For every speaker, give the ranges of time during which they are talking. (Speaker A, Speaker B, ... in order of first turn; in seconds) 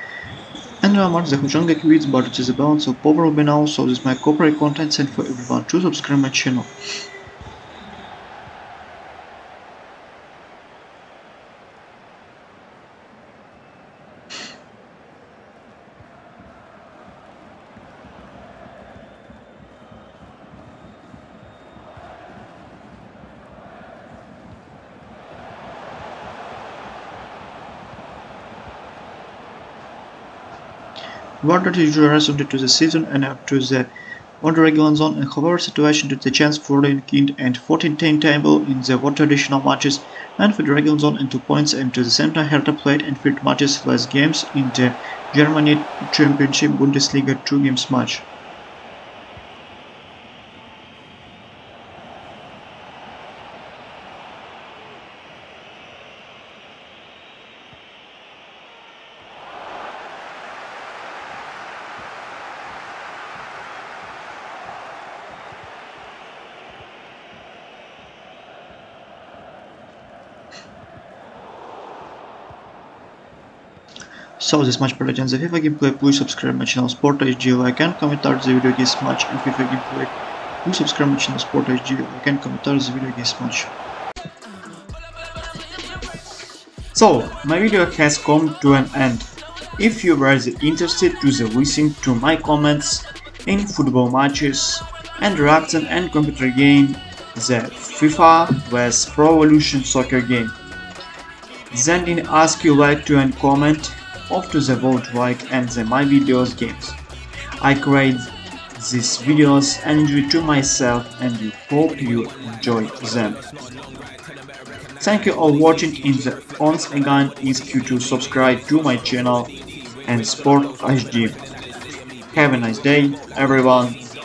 Speaker A: 0.8-6.7, 31.4-48.3, 74.4-83.7, 86.9-100.6, 101.7-107.0, 107.6-113.4, 115.0-119.5, 120.1-121.4, 122.3-124.0